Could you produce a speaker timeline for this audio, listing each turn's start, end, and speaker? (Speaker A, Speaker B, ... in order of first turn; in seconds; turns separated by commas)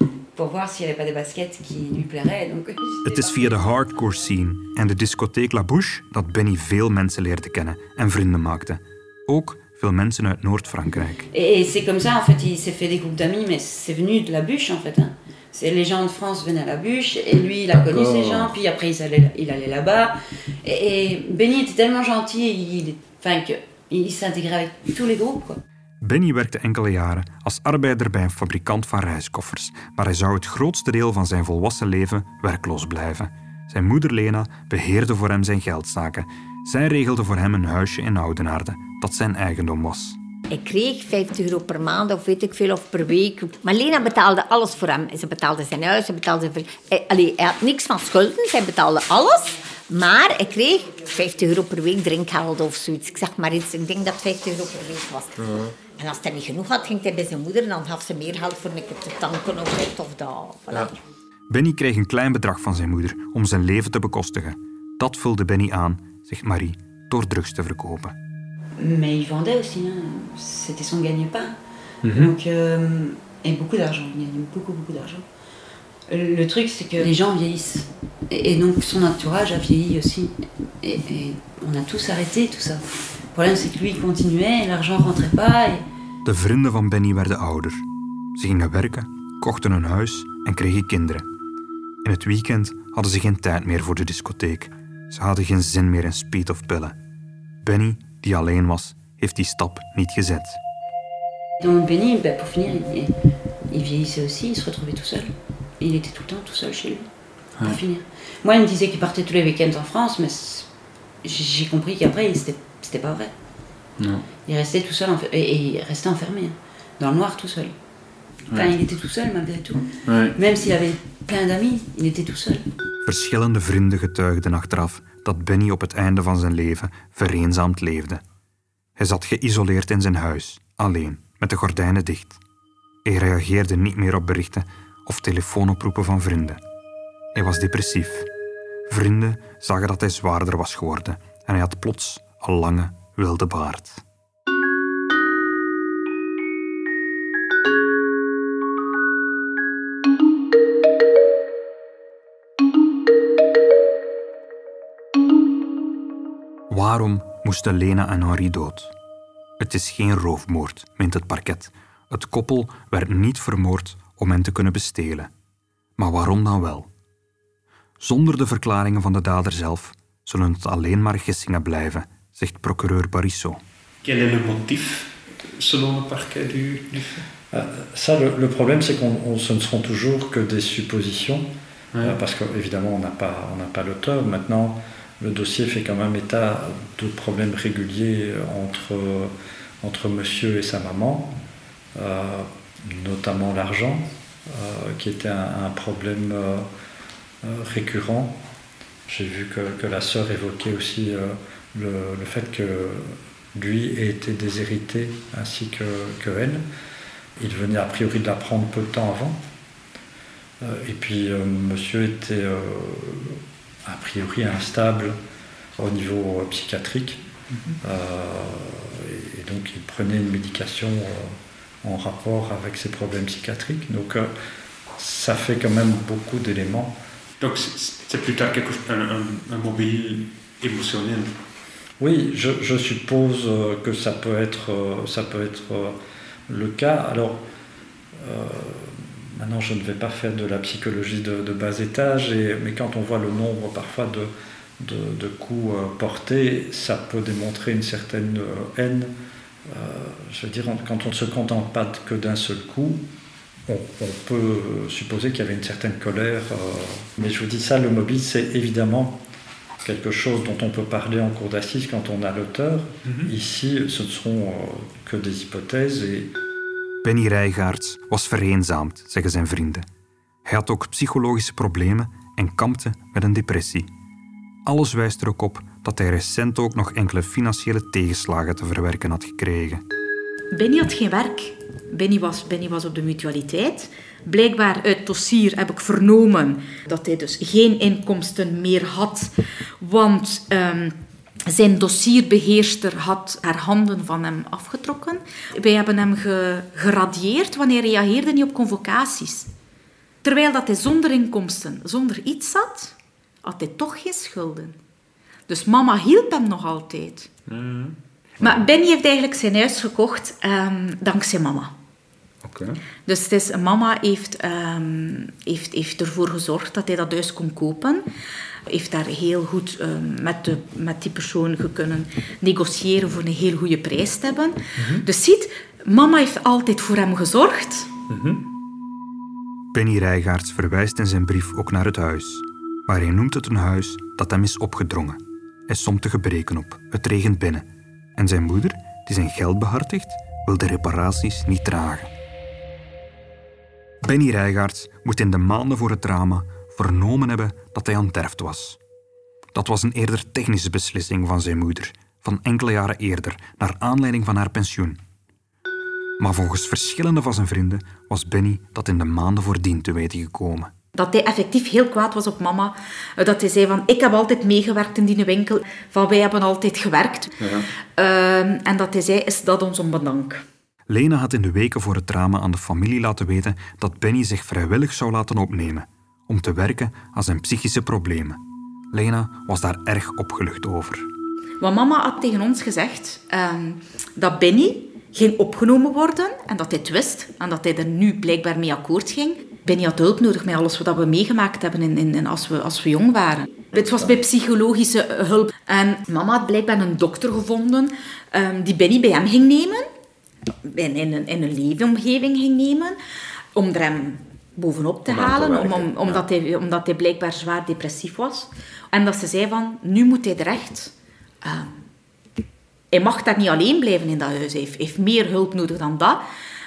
Speaker A: 0.3-3.6, Speaker B: 3.0-11.2, Speaker A: 11.3-25.6, Speaker C: 17.8-18.5, Speaker B: 26.0-40.2, Speaker D: 40.5-61.0, Speaker C: 55.4-55.8, Speaker B: 61.5-68.2, Speaker A: 68.8-75.2, Speaker C: 72.0-72.3, Speaker A: 76.1-85.8, Speaker B: 86.2-91.2, Speaker B: 92.0-97.0, Speaker B: 97.6-100.6, Speaker A: 101.6-103.1, Speaker A: 103.7-110.7, Speaker A: 111.2-113.3, Speaker C: 114.0-114.2, Speaker A: 114.4-117.8, Speaker A: 118.5-122.7, Speaker C: 120.0-120.3, Speaker B: 123.0-128.2, Speaker B: 129.0-132.4, Speaker B: 133.0-136.6, Speaker B: 137.3-138.3, Speaker B: 138.9-144.0, Speaker B: 156.7-158.9, Speaker B: 159.6-165.3, Speaker B: 166.0-166.9, Speaker B: 168.0-173.6, Speaker C: 174.0-177.2, Speaker E: 177.5-191.3, Speaker E: 191.9-196.7, Speaker E: 197.4-198.4, Speaker E: 199.1-206.6, Speaker E: 207.4-209.4, Speaker E: 210.6-215.2, Speaker E: 215.8-217.2, Speaker E: 217.8-224.3, Speaker E: 224.9-226.9, Speaker C: 227.4-231.3, Speaker E: 232.0-236.0, Speaker E: 236.5-237.4, Speaker E: 238.2-249.1, Speaker E: 249.7-253.1, Speaker E: 253.7-259.2, Speaker E: 259.8-266.3, Speaker C: 263.1-263.3, Speaker B: 267.0-269.9, Speaker B: 270.4-273.9, Speaker B: 274.6-279.8, Speaker F: 280.5-290.9, Speaker F: 291.5-299.5, Speaker F: 300.2-304.8, Speaker F: 305.5-307.3, Speaker C: 307.5-308.0, Speaker F: 308.4-311.7, Speaker C: 312.4-312.8, Speaker F: 313.1-318.1, Speaker F: 318.7-327.9, Speaker C: 324.8-325.1, Speaker C: 328.1-328.4, Speaker B: 329.7-342.1, Speaker B: 344.0-348.8, Speaker B: 349.5-355.0, Speaker B: 356.2-360.7, Speaker F: 360.9-370.4, Speaker C: 367.4-367.7, Speaker B: 370.9-378.4, Speaker B: 378.9-381.1, Speaker F: 381.6-399.9, Speaker C: 393.8-394.0, Speaker F: 400.6-402.9, Speaker F: 403.5-410.9, Speaker C: 405.1-406.2, Speaker F: 411.4-411.8, Speaker F: 412.9-416.2